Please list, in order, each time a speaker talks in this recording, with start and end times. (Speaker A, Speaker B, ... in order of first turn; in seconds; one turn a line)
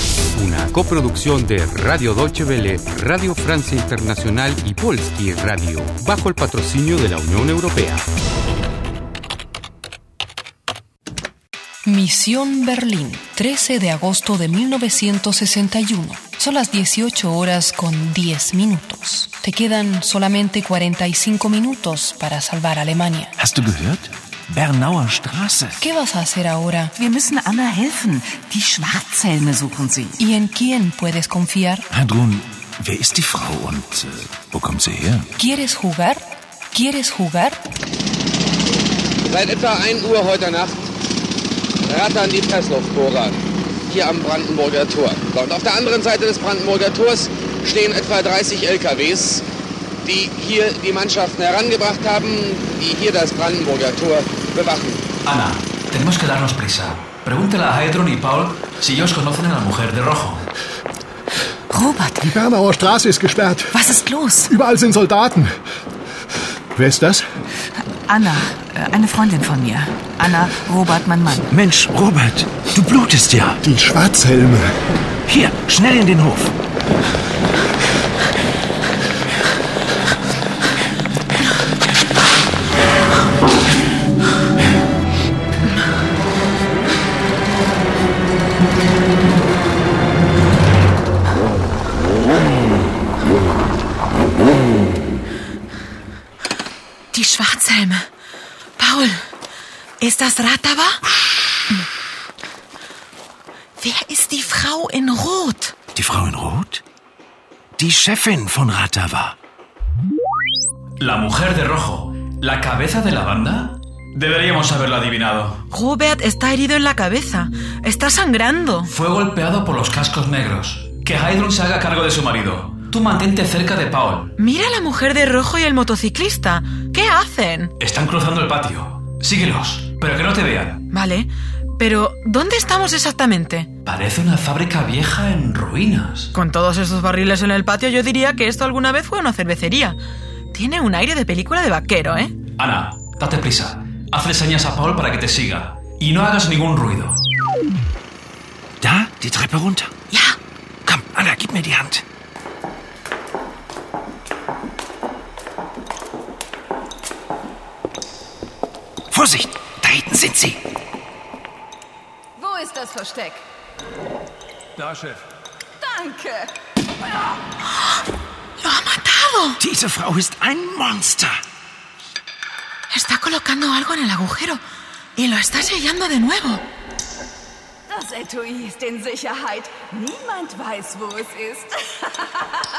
Speaker A: 0.3-8.1
Speaker B: 11.9-23.3
Speaker C: 23.4-25.8
Speaker B: 25.8-26.9
Speaker D: 27.0-30.2
Speaker B: 30.4-31.8
Speaker C: 32.0-34.2
Speaker B: 35.3-36.2
Speaker B: 36.7-37.6
Speaker E: 39.3-40.9
Speaker E: 41.8-49.4
Speaker E: 50.0-55.0
Speaker F: 55.2-60.5
Speaker D: 61.7-62.1
Speaker G: 62.2-63.9
Speaker D: 63.7-64.5
Speaker G: 64.4-65.5
Speaker G: 66.8-67.2
Speaker D: 68.1-71.5
Speaker C: 71.5-73.6
Speaker G: 73.6-74.7
Speaker C: 75.3-76.5
Speaker H: 97.1-98.0
Speaker H: 98.8-99.2
Speaker H: 100.0-101.0
Speaker H: 103.8-105.7
Speaker C: 105.9-106.8
Speaker C: 107.8-109.3
Speaker F: 111.0-115.6
Speaker H: 115.7-118.9
Speaker F: 118.9-124.3
Speaker H: 124.4-127.7
Speaker F: 127.8-130.8
Speaker H: 130.9-133.7
Speaker F: 133.8-136.3
Speaker H: 136.3-140.0
Speaker H: 140.5-142.3
Speaker F: 142.6-147.2
Speaker C: 148.8-149.9
Speaker H: 150.1-150.3
Speaker C: 150.8-152.0
Speaker C: 159.1-160.6
Speaker I: 162.4-163.4
Speaker I: 165.8-166.5
Speaker H: 168.6-169.6
Speaker C: 169.6-171.4
Speaker H: 172.9-174.6
Speaker H: 175.2-176.6
Speaker I: 177.9-182.1